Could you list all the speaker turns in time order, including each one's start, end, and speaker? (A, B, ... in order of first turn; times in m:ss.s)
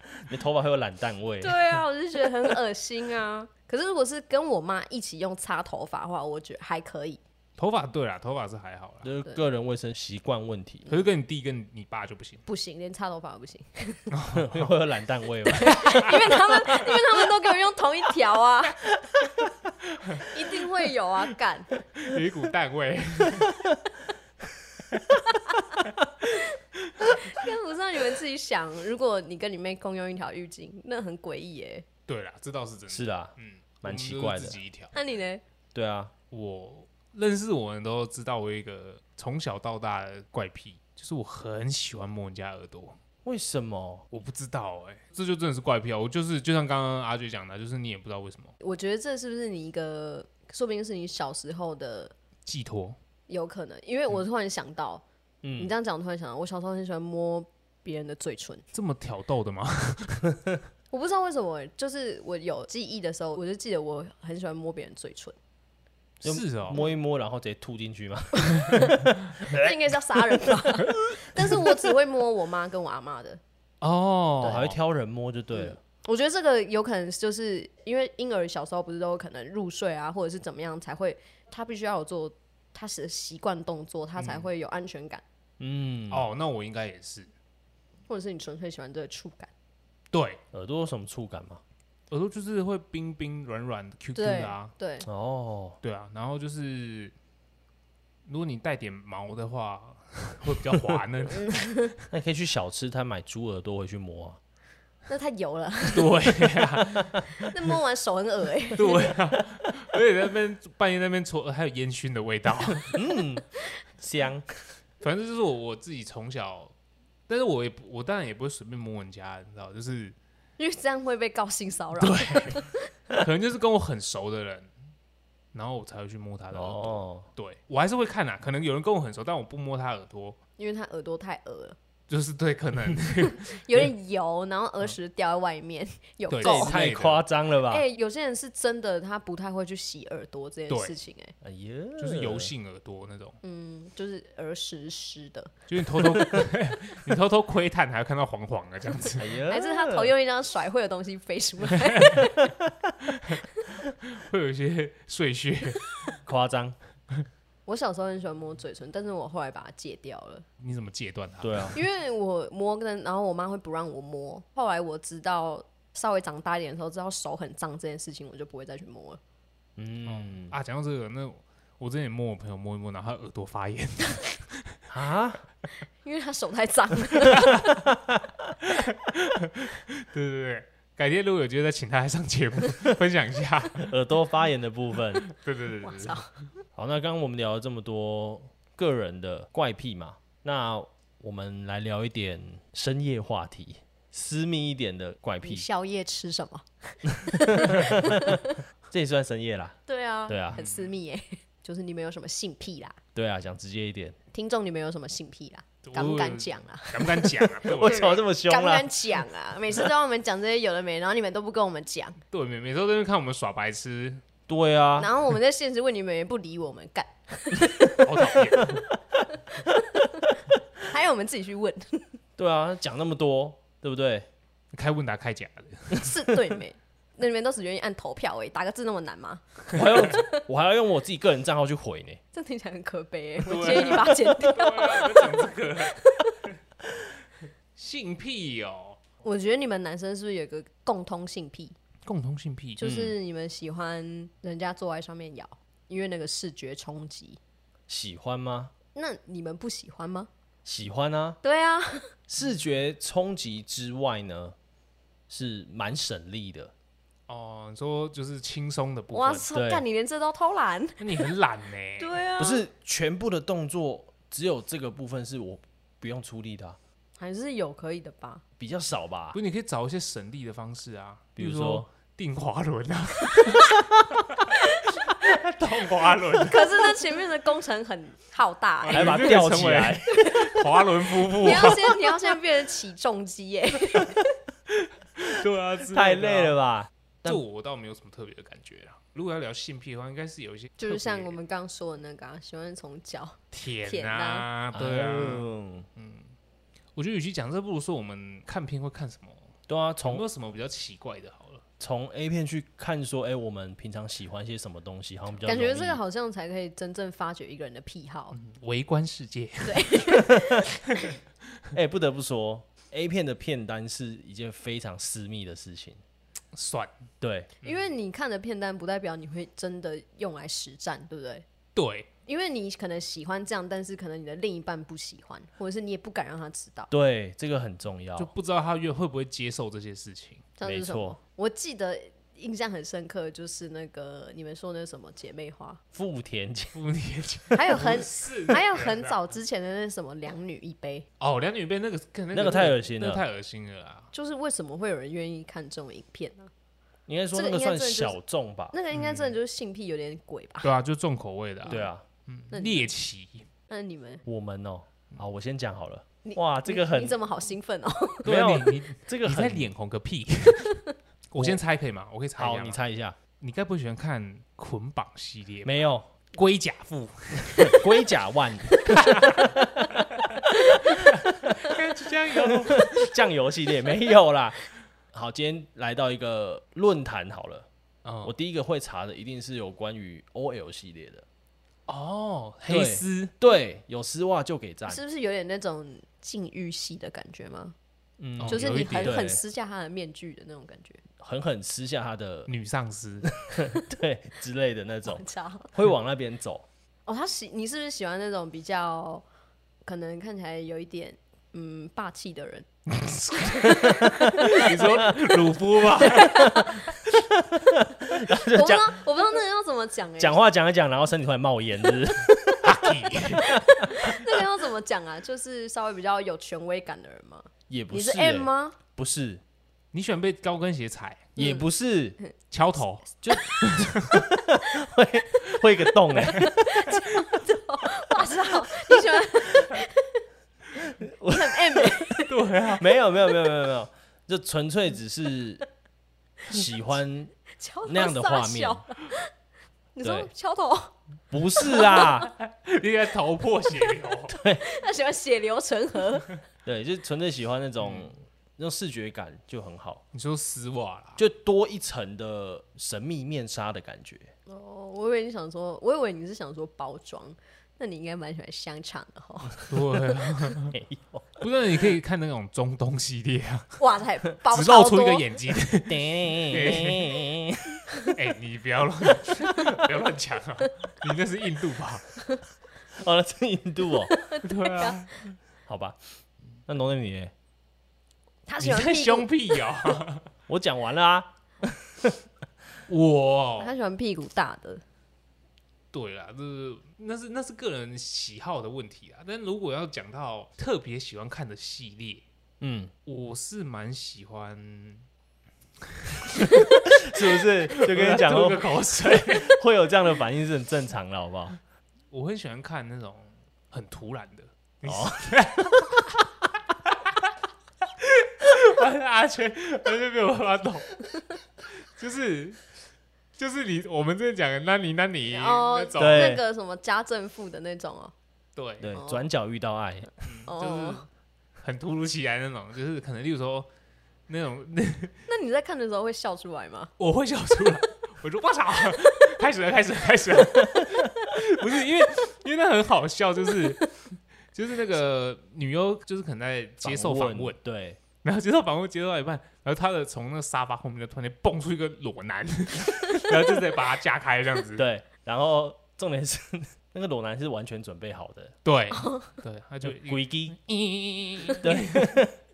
0:00.2-0:01.8 A
0:01.4-0:07.2 B
0:07.6-0:09.1 C
0:09.0-0:10.8 A
0:10.9-0:12.4 C
0:12.4-0:14.1 B
0:14.1-0:14.7 C
0:14.3-0:16.4 A
0:15.4-0:18.8 B
0:15.8-0:16.1 C
0:19.9-0:20.3 C
0:20.3-0:21.8 B
0:21.9-0:23.6 C
0:27.0-0:31.8 B
0:32.1-0:34.9 C
0:32.9-0:34.6 A
0:34.9-0:35.4 B
0:35.7-0:36.1 A
0:36.3-0:43.0 C
0:43.2-0:44.0 A
0:44.1-0:48.5 C
0:48.6-0:52.1 B
0:52.4-0:53.0 C
0:53.3-0:55.0 B
0:55.4-0:55.7 A
0:55.6-0:58.6 B
0:58.7-1:00.3 C
1:00.9-1:05.4 B
1:06.2-1:06.8 C
1:06.2-1:09.7 A
1:08.5-1:13.4 B
1:13.8-1:14.7 C
1:14.4-1:14.7 B
1:14.4-1:15.8 A
1:15.5-1:25.2 B
1:24.2-1:24.5 C
1:25.6-1:26.2 A
1:26.1-1:27.3 C
1:28.1-1:29.5 B
1:30.1-1:30.4 C
1:30.5-1:31.6 A
1:32.1-1:34.7 C
1:34.2-1:35.1 B
1:35.0-1:35.8 A
1:35.8-1:37.1 C
1:38.2-1:41.7 C
1:41.4-1:41.9 B
1:42.1-1:44.4 A
1:45.1-1:46.3 B
1:45.9-1:47.5 C
1:47.3-1:49.1 B
1:48.7-1:53.0 C
1:52.9-1:53.4 A
1:54.0-1:54.4 A
1:55.0-1:56.7 C
1:57.3-2:00.1 C
2:00.6-2:02.8 B
2:02.0-2:04.7 C
2:05.5-2:10.4 C
2:06.5-2:07.3 A
2:10.6-2:11.8 B
2:12.1-2:13.8 C
2:13.2-2:16.8 B
2:16.3-2:17.2 C
2:16.4-2:17.8 A
2:17.6-2:21.3 B
2:20.7-2:20.9 C
2:21.4-2:22.5 A
2:22.0-2:23.4 C
2:23.4-2:25.5 B
2:25.7-2:29.3 C
2:29.2-2:30.1 A
2:29.4-2:32.6 B
2:31.9-2:32.2 C
2:33.1-2:33.4 C
2:34.0-2:35.9 C
2:36.2-2:36.8 A
2:37.6-2:40.4 B
2:40.6-2:41.8 C
2:41.4-2:41.8 A
2:41.7-2:49.2 B
2:49.8-2:50.5 A
2:50.0-2:54.8 C
2:54.9-2:55.4 A
2:56.0-2:57.9 B
2:57.9-2:58.2 A
2:58.6-3:03.9 C
3:03.8-3:05.2 A
3:05.2-3:06.2 C
3:05.8-3:06.3 B
3:06.8-3:15.7 A
3:15.4-3:18.5 B
3:17.3-3:18.4 A
3:18.9-3:19.8 A
3:19.9-3:23.0 B
3:20.3-3:20.6 A
3:20.6-3:20.9 C
3:23.1-3:24.2 A
3:24.3-3:32.2 B
3:25.8-3:28.2 C
3:27.6-3:28.9 A
3:32.3-3:34.2 C
3:34.5-3:35.1 A
3:35.0-3:38.4 B
3:37.9-3:38.8 C
3:39.5-3:42.2 B
3:42.4-3:44.3 A
3:44.7-3:46.1 C
3:45.9-3:50.4 B
3:49.7-3:52.2 A
3:52.3-3:56.3 B
3:53.4-3:56.0 C
3:57.8-3:59.0 C
3:59.2-4:01.7 B
4:02.0-4:03.0 C
4:02.8-4:07.4 B
4:07.9-4:08.7 A
4:08.9-4:10.3 B
4:10.6-4:11.4 A
4:11.4-4:12.1 B
4:12.3-4:14.6 A
4:15.3-4:16.7 A
4:17.3-4:19.4 C
4:19.1-4:21.3 B
4:19.5-4:19.8 A
4:21.0-4:22.2 C
4:22.0-4:22.6 B
4:22.4-4:26.8 A
4:27.2-4:28.4 B
4:28.6-4:29.4 A
4:29.3-4:36.9 C
4:31.4-4:31.8 A
4:36.4-4:39.3 B
4:38.8-4:41.9 C
4:38.9-4:40.5 A
4:40.2-4:40.6 B
4:41.2-4:44.2 B
4:45.2-4:46.5 C
4:45.8-4:47.4 A
4:47.2-4:51.4 C
4:50.8-4:54.5 B
4:53.5-4:56.3 C
4:54.7-4:55.8 A
4:57.0-4:59.5 C
4:59.7-5:00.2 A
5:00.0-5:01.6 C
5:01.8-5:06.0 A
5:05.4-5:08.4 B
5:08.3-5:10.2 C
5:09.6-5:11.1 B
5:11.7-5:16.0 A
5:16.5-5:16.9 C
5:17.2-5:17.5 A
5:17.6-5:21.4 B
5:21.8-5:22.1 C
5:22.3-5:26.9 B
5:26.9-5:28.3 A
5:28.2-5:30.5 C
5:30.6-5:35.8 B
5:30.6-5:31.2 A
5:35.9-5:36.8 A
5:36.7-5:39.2 C
5:37.5-5:41.0 B
5:41.2-5:44.1 C
5:42.3-5:43.2 A
5:44.1-5:46.5 B
5:47.1-5:48.8 A
5:47.3-5:48.2 B
5:48.7-5:50.7 B
5:48.9-5:49.3 C
5:50.6-5:53.5 C
5:51.7-5:52.0 A
5:52.5-5:52.9 B
5:53.7-5:54.2 B
5:54.2-5:57.2 A
5:56.2-5:58.3 B
5:58.2-5:59.7 A
5:58.2-6:02.8 C
6:02.4-6:03.2 A
6:03.4-6:05.8 C
6:05.6-6:06.1 A
6:06.3-6:07.8 C
6:07.6-6:10.0 A
6:08.9-6:09.4 C
6:10.2-6:13.1 C
6:12.4-6:17.7 A
6:18.0-6:18.3 C
6:18.2-6:21.2 A
6:21.9-6:23.3 C
6:22.7-6:25.0 A
6:24.9-6:27.7 B
6:28.2-6:29.4 A
6:28.4-6:29.2 C
6:28.4-6:31.0 B
6:31.2-6:32.5 A
6:32.5-6:33.3 C
6:33.4-6:36.6 A
6:35.1-6:35.7 B
6:37.0-6:39.2 B
6:39.8-6:42.7 B
6:42.9-6:46.8 C
6:43.5-6:44.7 B
6:46.0-6:47.0 B
6:47.2-6:49.0 A
6:48.1-6:50.4 B
6:50.2-6:52.8 A
6:52.3-6:52.6 B
6:52.6-6:53.5 C
6:53.4-6:58.8 B
6:53.5-6:54.2 A
6:57.7-6:59.4 A
6:59.9-7:01.4 C
7:01.4-7:02.2 A
7:01.4-7:01.6 B
7:02.5-7:03.0 C
7:03.2-7:07.3 A
7:03.3-7:03.6 B
7:03.6-7:04.2 C
7:06.2-7:10.2 B
7:06.2-7:06.5 C
7:10.8-7:12.1 A
7:11.2-7:12.4 B
7:12.2-7:12.8 C
7:12.8-7:15.6 A
7:16.5-7:17.3 A
7:17.5-7:19.3 B
7:17.8-7:18.8 A
7:19.9-7:20.9 B
7:20.0-7:20.3 A
7:21.3-7:22.3 A
7:21.6-7:22.2 B
7:22.0-7:24.4 C
7:24.3-7:24.6 A
7:24.6-7:26.4 B
7:26.6-7:30.0 A
7:27.8-7:28.1 C
7:30.1-7:31.2 C
7:31.2-7:34.3 A
7:34.5-7:39.7 B
7:39.7-7:40.7 C
7:40.7-7:41.2 A
7:41.4-7:43.8 C
7:43.8-7:45.4 B
7:44.5-7:47.3 C
7:45.9-7:47.8 A
7:48.0-7:52.0 C
7:52.9-7:54.1 A
7:54.1-7:55.1 B
7:54.4-7:55.4 C
7:55.6-7:56.0 A
7:56.7-7:57.3 A
7:58.5-7:59.7 B
7:58.6-8:00.3 C
8:00.5-8:02.2 A
8:02.9-8:03.7 C
8:03.6-8:04.8 B
8:05.9-8:12.2 C
8:12.6-8:12.9 A
8:13.0-8:15.0 C
8:16.2-8:19.6 C
8:17.0-8:21.6 A
8:22.1-8:26.1 C
8:24.8-8:25.3 A
8:26.9-8:27.3 C
8:28.0-8:31.2 C
8:31.8-8:32.7 C
8:33.4-8:36.4 C
8:35.3-8:38.1 B
8:36.0-8:36.4 A
8:38.6-8:38.9 C
8:38.8-8:40.1 A
8:38.9-8:39.3 B
8:40.2-8:41.1 C
8:40.5-8:41.0 B
8:41.6-8:43.7 C
8:44.3-8:45.1 C
8:45.3-8:46.9 B
8:47.0-8:54.0 C
8:54.5-8:57.6 C
8:56.8-8:58.0 A
8:58.2-9:04.8 C
9:04.8-9:08.5 A
9:08.6-9:12.2 C
9:09.0-9:09.2 B
9:09.8-9:10.6 A
9:11.6-9:12.4 A